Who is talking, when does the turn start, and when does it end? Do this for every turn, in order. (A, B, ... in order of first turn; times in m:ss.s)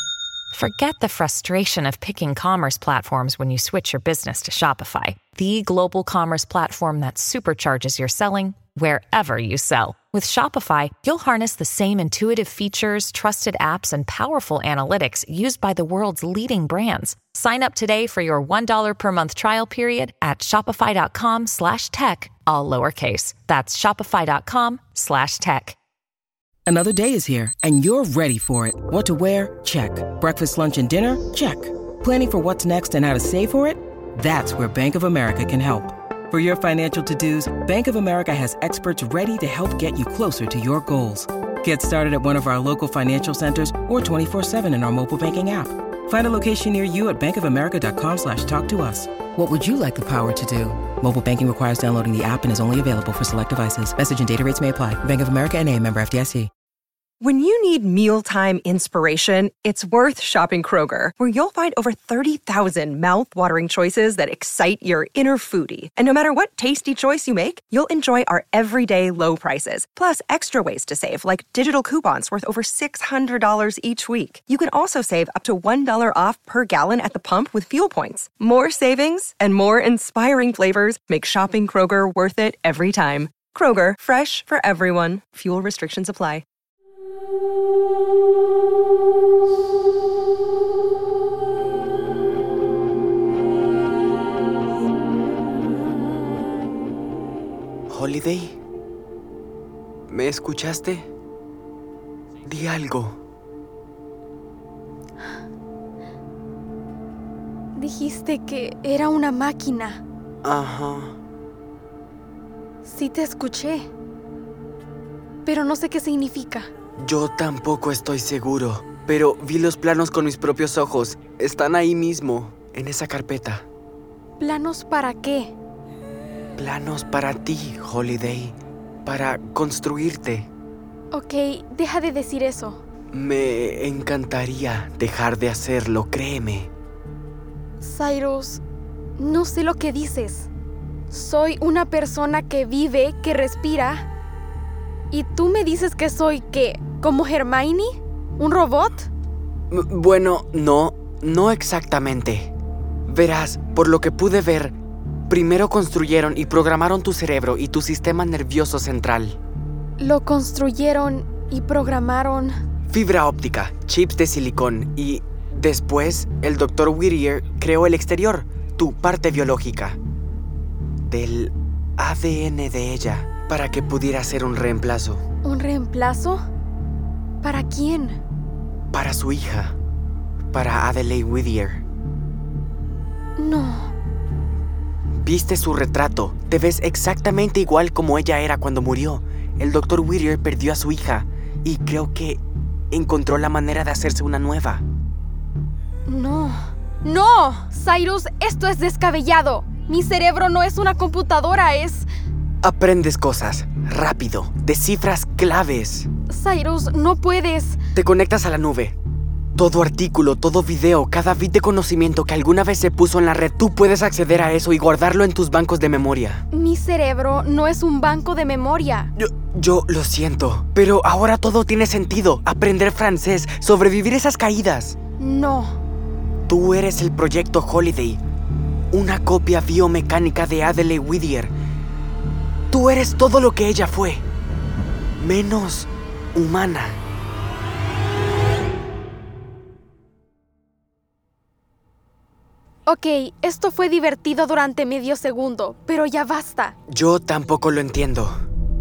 0:00.5-0:25.8 A
0:26.7-0:56.5 B
0:57.2-1:26.4 C
1:37.9-1:38.6 D
1:40.1-1:41.0 D
1:42.4-1:43.2 D
1:47.8-1:50.0 E
1:50.4-1:51.2 D
1:52.8-1:53.9 E
1:55.4-1:56.7 E
1:57.0-2:03.6 D
2:04.4-2:05.5 E
2:06.6-2:10.5 D
2:11.1-2:12.8 E
2:13.1-2:16.7 D
2:17.8-2:18.6 E
2:19.2-2:20.5 E
2:21.1-2:24.1 E
2:25.1-2:29.1 E
2:29.7-2:32.5 D
2:33.1-2:34.8 D
2:35.3-2:39.4 D
2:40.0-2:42.5 E
2:42.9-2:50.0 D
2:51.1-2:55.2 D
2:55.4-2:56.4 E
2:57.4-2:58.2 E
2:58.9-2:59.8 D
3:00.5-3:01.8 D
3:03.4-3:03.9 E
3:05.2-3:14.8 D
3:16.1-3:22.1 E
3:22.6-3:26.1 D
3:26.3-3:27.8 E
3:27.9-3:29.0 D
3:29.6-3:36.4 D
3:36.5-3:39.1 E
3:39.2-3:45.0 D
3:45.2-3:45.8 E
3:46.5-3:48.2 D
3:48.9-3:51.5 D
3:52.7-3:54.2 D
3:55.2-3:57.0 D
4:02.8-4:06.8 E
4:06.9-4:08.3 D